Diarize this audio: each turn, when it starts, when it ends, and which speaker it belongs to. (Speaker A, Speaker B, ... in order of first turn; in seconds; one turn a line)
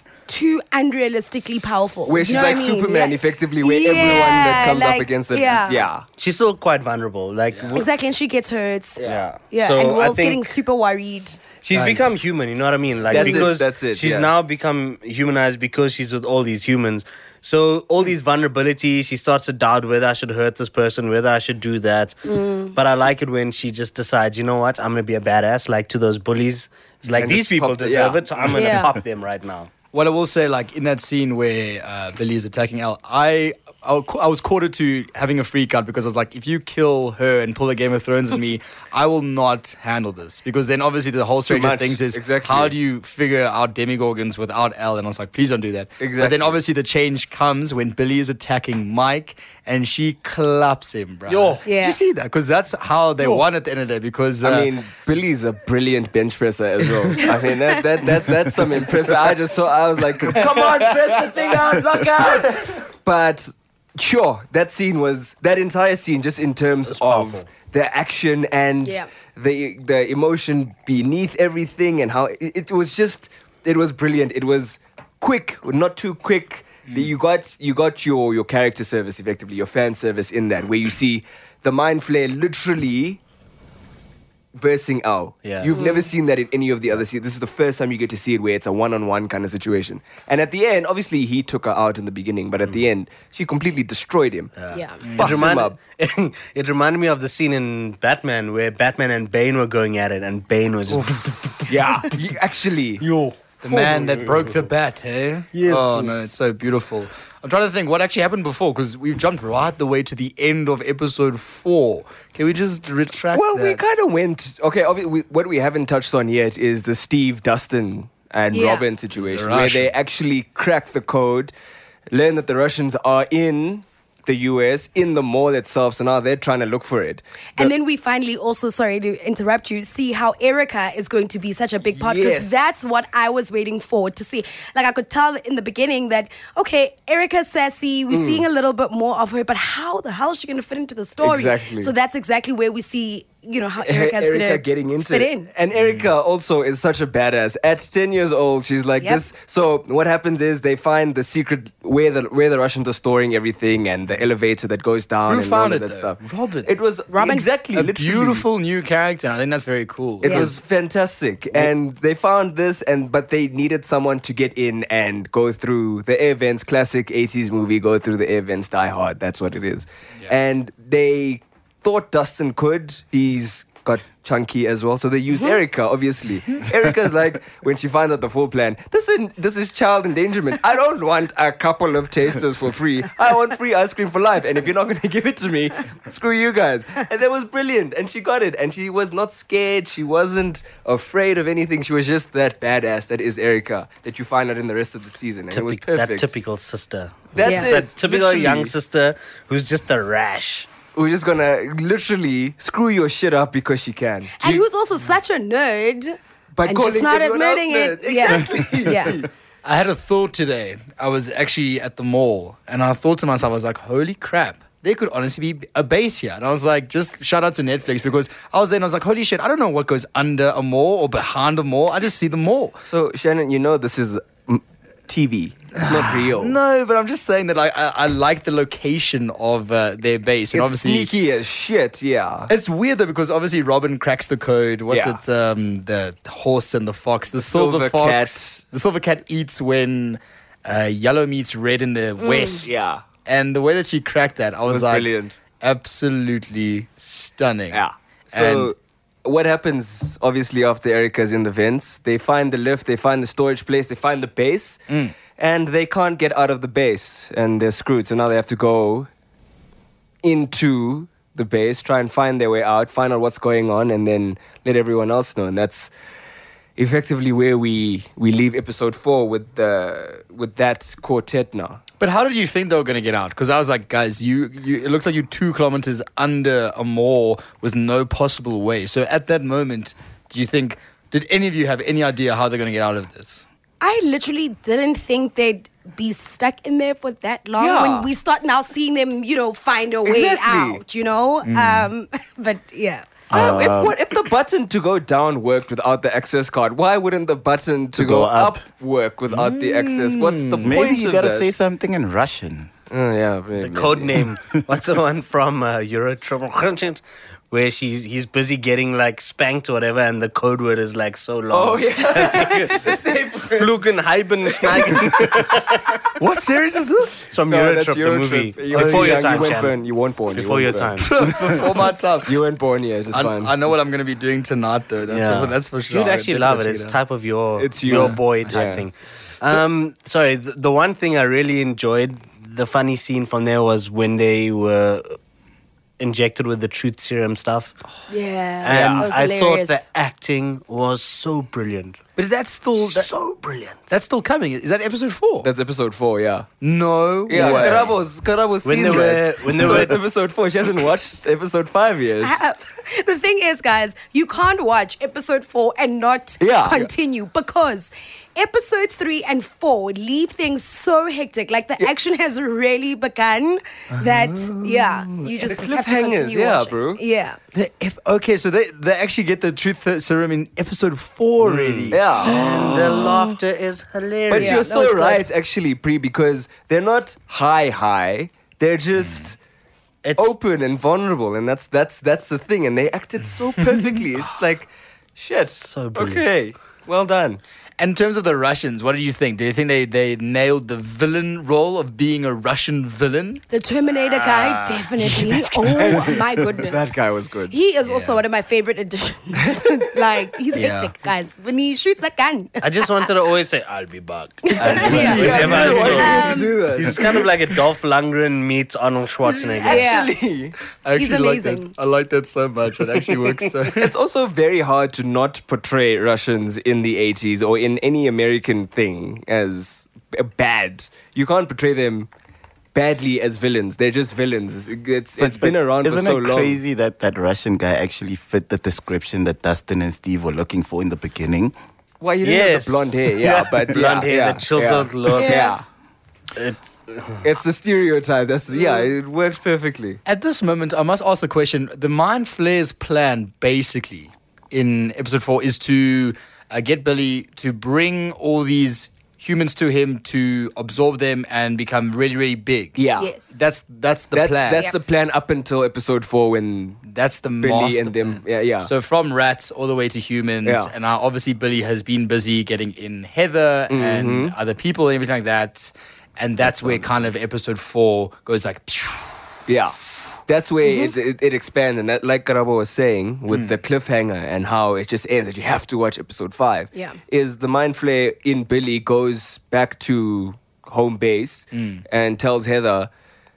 Speaker A: 0.3-5.9
Speaker B: 2.1-6.1
Speaker C: 6.2-7.9
Speaker A: 7.7-11.4
Speaker B: 9.0-9.2
Speaker C: 9.0-10.6
Speaker C: 11.6-22.2
Speaker D: 11.7-12.1
Speaker B: 13.1-14.3
Speaker A: 13.1-13.5
Speaker A: 22.3-22.8
Speaker C: 22.8-29.7
Speaker B: 27.1-28.2
Speaker A: 28.5-28.9
Speaker D: 29.9-54.7
Speaker B: 41.3-42.7
Speaker B: 46.0-46.6
Speaker C: 51.3-51.6
Speaker A: 51.6-52.0
Speaker B: 54.4-83.2
Speaker C: 60.3-62.4
Speaker C: 66.9-67.5
Speaker B: 84.6-94.5
Speaker C: 85.4-85.7
Speaker A: 85.7-86.1
Speaker C: 94.6-102.1
Speaker A: 94.7-95.0
Speaker D: 95.0-95.5
Speaker B: 95.2-95.8
Speaker D: 100.9-101.2
Speaker B: 101.7-103.0
Speaker C: 103.0-104.6
Speaker D: 103.6-113.8
Speaker C: 105.5-106.3
Speaker B: 113.3-121.5
Speaker A: 118.5-118.8
Speaker D: 119.2-119.9
Speaker B: 122.1-127.7
Speaker A: 127.6-145.5
Speaker B: 131.9-132.7
Speaker B: 138.1-138.5
Speaker B: 141.2-141.9
Speaker B: 143.8-158.5
Speaker D: 145.8-146.1
Speaker D: 155.3-156.7
Speaker A: 157.1-157.5
Speaker D: 157.7-160.6
Speaker B: 160.2-196.3
Speaker A: 160.2-160.5
Speaker C: 195.5-200.7
Speaker B: 197.3-198.7
Speaker A: 197.4-197.8
Speaker B: 200.9-204.6
Speaker A: 204.4-209.2
Speaker B: 206.6-209.3
Speaker D: 209.6-222.8
Speaker B: 222.9-226.6
Speaker D: 225.8-231.1
Speaker B: 230.5-232.5
Speaker D: 232.5-247.8
Speaker B: 234.9-235.2
Speaker B: 237.4-238.6
Speaker A: 242.2-242.7
Speaker B: 242.7-243.0
Speaker B: 244.7-245.3
Speaker B: 247.7-254.8
Speaker D: 248.3-248.7
Speaker D: 254.9-255.2
Speaker B: 255.4-259.1
Speaker B: 260.2-265.9
Speaker B: 266.8-271.8
Speaker D: 272.0-283.4
Speaker A: 283.8-293.1
Speaker B: 287.6-288.1
Speaker B: 290.1-290.8
Speaker D: 291.4-291.9
Speaker E: 293.3-294.0
Speaker B: 293.3-301.5
Speaker E: 297.9-298.6
Speaker D: 299.3-300.8
Speaker E: 300.6-302.7
Speaker B: 302.9-304.2
Speaker C: 303.6-316.1
Speaker B: 311.5-313.8
Speaker B: 314.5-315.1
Speaker D: 316.2-317.3
Speaker C: 317.3-319.8
Speaker B: 317.5-321.4
Speaker D: 318.7-319.6
Speaker C: 320.3-321.3
Speaker D: 321.0-322.4
Speaker B: 322.3-323.5
Speaker D: 323.1-327.0
Speaker C: 325.1-335.1
Speaker B: 327.6-328.9
Speaker D: 327.9-328.2
Speaker C: 336.0-337.8
Speaker A: 338.1-339.8
Speaker C: 338.6-342.0
Speaker B: 338.7-339.1
Speaker D: 342.2-345.5
Speaker C: 342.9-343.5
Speaker B: 345.4-346.5
Speaker D: 346.6-348.0
Speaker B: 347.3-352.4
Speaker C: 347.4-347.8
Speaker A: 347.4-347.7
Speaker C: 348.6-350.0
Speaker A: 352.2-367.4
Speaker B: 356.4-356.9
Speaker B: 364.5-367.0
Speaker D: 367.5-373.2
Speaker C: 371.4-374.7
Speaker B: 371.9-373.1
Speaker B: 374.3-379.4
Speaker A: 374.4-375.3
Speaker C: 380.0-380.3
Speaker B: 380.2-387.4
Speaker C: 385.4-386.2
Speaker D: 387.8-393.4
Speaker A: 393.5-403.1
Speaker D: 394.1-395.9
Speaker B: 395.8-397.6
Speaker D: 397.9-398.2
Speaker B: 399.4-399.8
Speaker D: 400.5-400.9
Speaker C: 402.6-409.9
Speaker A: 404.5-406.6
Speaker B: 404.6-407.2
Speaker D: 404.9-406.3
Speaker B: 409.4-410.6
Speaker A: 409.7-410.1
Speaker D: 410.8-413.9
Speaker A: 411.0-411.7
Speaker B: 413.7-422.1
Speaker B: 422.7-426.6
Speaker E: 425.2-431.5
Speaker B: 432.0-435.6
Speaker C: 432.2-435.5
Speaker A: 435.2-435.6
Speaker C: 436.4-437.2
Speaker B: 437.2-440.0
Speaker A: 438.5-438.9
Speaker D: 440.1-452.8
Speaker B: 452.8-453.1
Speaker A: 453.0-453.4
Speaker D: 453.3-454.7
Speaker B: 454.1-456.8
Speaker D: 456.9-469.2
Speaker B: 457.4-458.7
Speaker B: 460.4-460.7
Speaker B: 463.7-464.3
Speaker B: 466.5-466.8
Speaker B: 469.5-469.8
Speaker B: 470.3-482.9
Speaker A: 470.6-470.9
Speaker D: 473.3-473.6
Speaker A: 476.7-477.0
Speaker D: 481.5-481.8